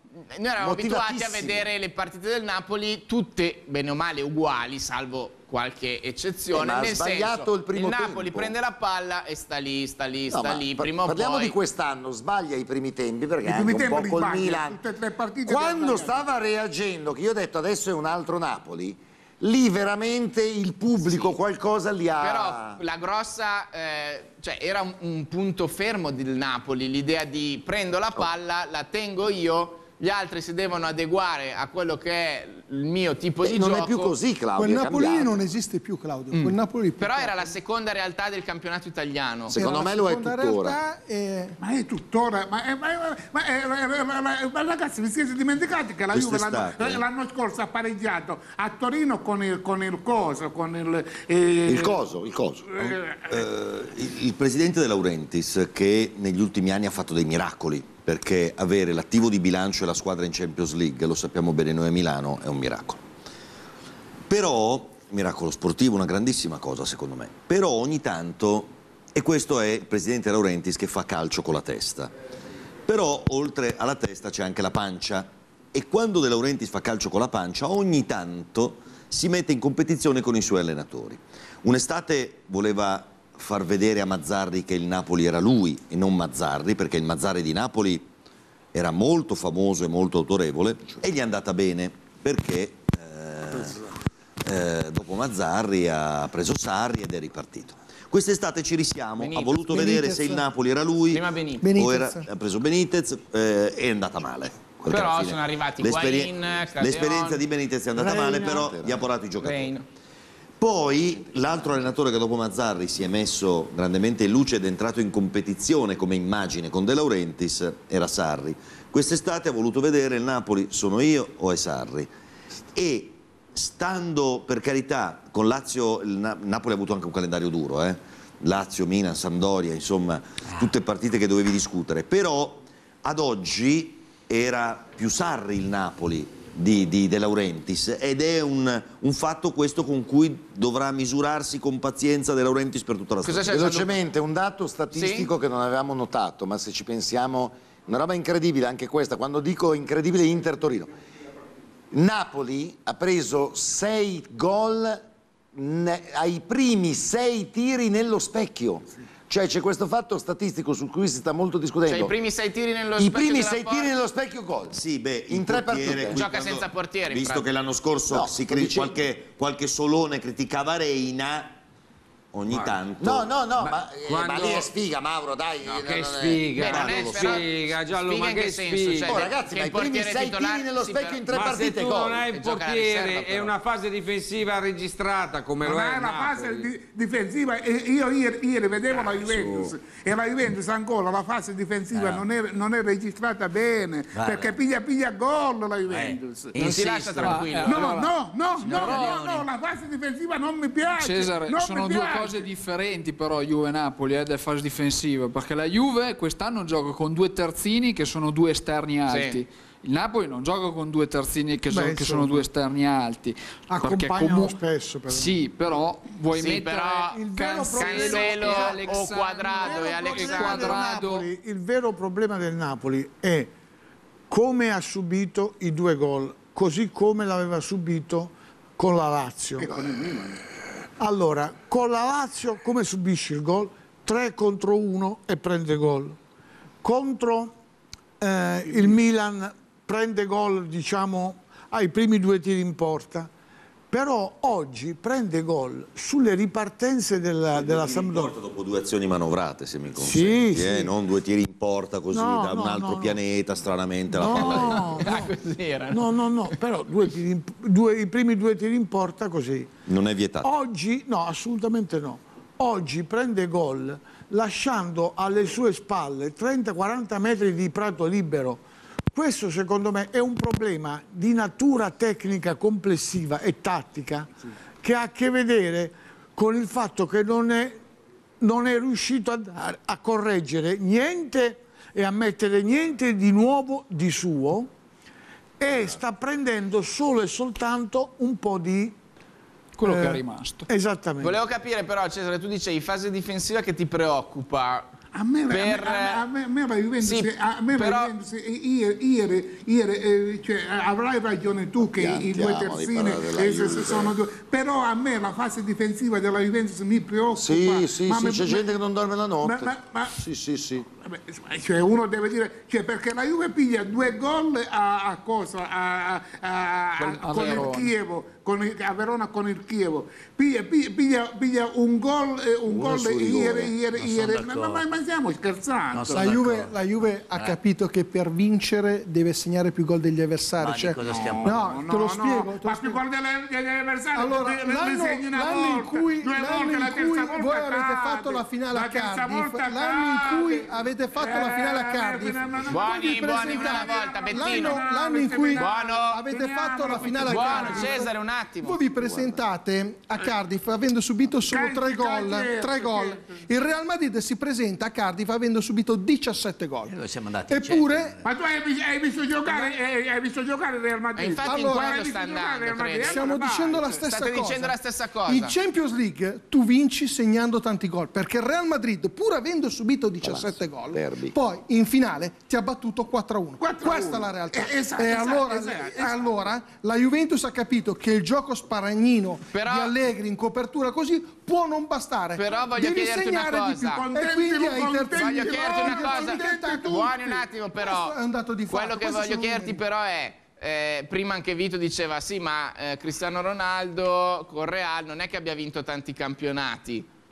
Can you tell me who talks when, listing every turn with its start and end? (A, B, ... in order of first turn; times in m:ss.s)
0:00.3-0:11.6 A
0:00.6-0:01.7 B
0:06.5-0:08.6 B
0:10.3-0:14.8 B
0:13.4-0:16.3 C
0:15.4-0:22.8 B
0:22.2-0:34.1 A
0:33.4-0:35.4 B
0:34.6-0:37.5 D
0:36.3-0:39.6 A
0:39.5-0:40.8 B
0:39.5-0:41.6 D
0:41.6-0:52.0 C
0:46.1-0:47.0 E
0:51.6-0:52.7 B
0:52.7-0:53.4 C
0:52.8-1:03.0 E
1:04.3-1:12.1 E
1:12.9-1:28.1 E
1:28.7-1:33.9 E
1:34.4-1:49.7 E
1:39.2-1:39.8 A
1:39.7-1:40.4 D
1:41.1-1:41.7 A
1:41.6-1:42.3 D
1:44.9-1:47.4 A
1:48.0-1:49.1 B
1:48.2-1:48.7 F
1:49.4-1:49.8 A
1:50.6-2:02.1 E
2:02.7-2:23.6 E
2:23.2-2:23.9 A
2:23.5-2:30.9 B
2:24.9-2:25.3 A
2:31.9-2:35.0 B
2:35.5-2:42.1 B
2:41.9-2:43.9 A
2:43.0-2:44.8 B
2:44.7-2:51.6 E
2:45.3-2:46.2 B
2:46.1-2:47.4 A
2:48.1-2:49.0 B
2:52.3-2:53.3 E
2:52.5-2:52.8 G
2:53.0-2:56.4 B
2:53.6-2:54.7 G
2:55.6-2:59.2 G
2:56.5-3:01.2 A
2:56.6-2:57.4 E
2:59.0-3:02.2 B
3:01.3-3:06.7 G
3:02.3-3:03.5 A
3:05.6-3:16.6 C
3:08.9-3:09.7 G
3:11.9-3:12.2 H
3:14.1-3:14.5 H
3:15.9-3:17.5 H
3:16.6-3:17.9 A
3:17.2-3:19.2 I
3:17.7-3:22.5 C
3:18.7-3:19.5 H
3:18.7-3:19.1 A
3:20.9-3:41.3 I
3:29.1-3:29.4 A
3:31.7-3:32.4 F
3:33.7-3:35.4 F
3:36.3-3:40.8 A
3:37.1-3:38.9 F
3:39.5-3:43.5 F
3:44.3-3:49.7 F
3:49.6-3:50.4 C
3:51.0-3:56.2 F
3:56.8-3:57.5 F
3:58.2-4:03.3 F
4:03.9-4:08.3 F
4:07.5-4:15.1 E
4:10.0-4:10.9 F
4:12.1-4:13.2 F
4:14.1-4:15.3 F
4:14.4-4:16.6 A
4:15.9-4:19.7 F
4:19.9-4:20.5 E
4:20.4-4:28.6 F
4:29.1-4:34.3 F
4:34.8-4:37.8 F
4:38.4-4:44.7 F
4:45.6-4:49.0 F
4:49.8-4:50.7 I
4:49.8-4:51.4 F
4:51.2-4:54.9 A
4:55.1-5:08.7 C
4:55.5-4:56.2 A
4:57.0-4:58.1 A
5:01.9-5:04.2 B
5:07.3-5:10.9 B
5:09.4-5:10.2 C
5:11.0-5:26.4 C
5:17.0-5:17.9 A
5:17.3-5:17.9 I
5:22.7-5:23.7 B
5:24.0-5:24.8 H
5:25.9-5:27.6 H
5:26.1-5:33.0 D
5:30.6-5:31.7 H
5:31.0-5:48.0 C
5:34.1-5:56.9 D
5:42.7-5:44.9 A
5:45.6-5:46.2 A
5:47.2-5:48.8 A
5:51.4-5:53.4 C
5:56.9-5:58.2 H
5:57.5-5:58.2 D
5:58.2-6:04.0 C
6:01.2-6:03.4 A
6:01.4-6:02.1 D
6:03.0-6:27.2 D
6:04.0-6:05.6 A
6:10.2-6:11.4 B
6:13.6-6:16.4 C
6:19.5-6:19.9 A
6:22.4-6:24.0 A
6:24.0-6:27.4 C
6:25.2-6:28.2 A
6:27.7-6:29.8 D
6:28.7-6:37.1 A